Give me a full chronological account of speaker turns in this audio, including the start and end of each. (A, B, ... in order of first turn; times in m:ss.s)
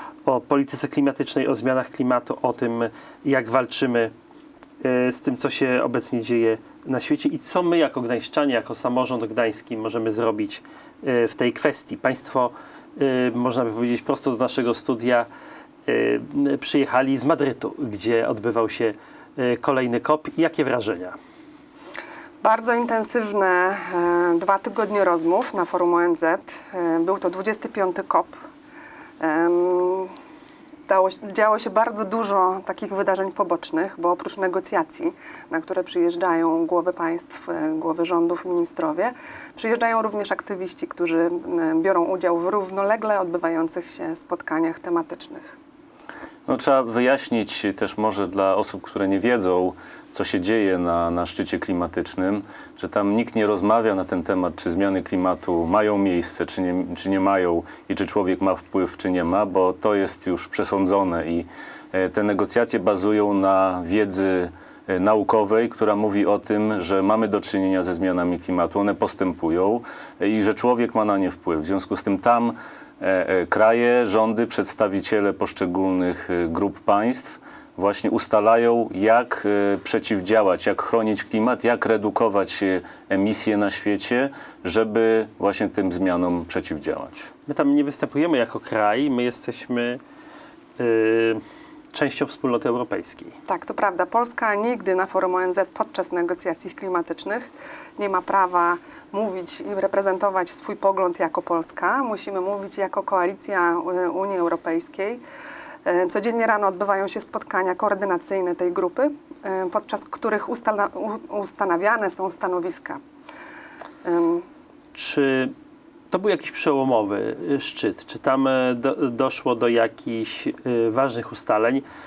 0:00.2-0:04.1 A
0:04.8-0:15.3 A
0:15.8-0:21.1 A
0:22.4-0:28.4 B
0:29.2-0:30.1 B
0:30.9-0:45.6 B
0:46.5-1:27.3 C
1:27.5-1:30.0 A
1:30.8-1:31.4 A
1:31.9-1:33.3 A
1:33.5-1:45.2 B
1:45.8-1:53.0 B
1:54.0-1:54.4 B
1:54.9-1:55.5 A
1:56.1-2:01.8 A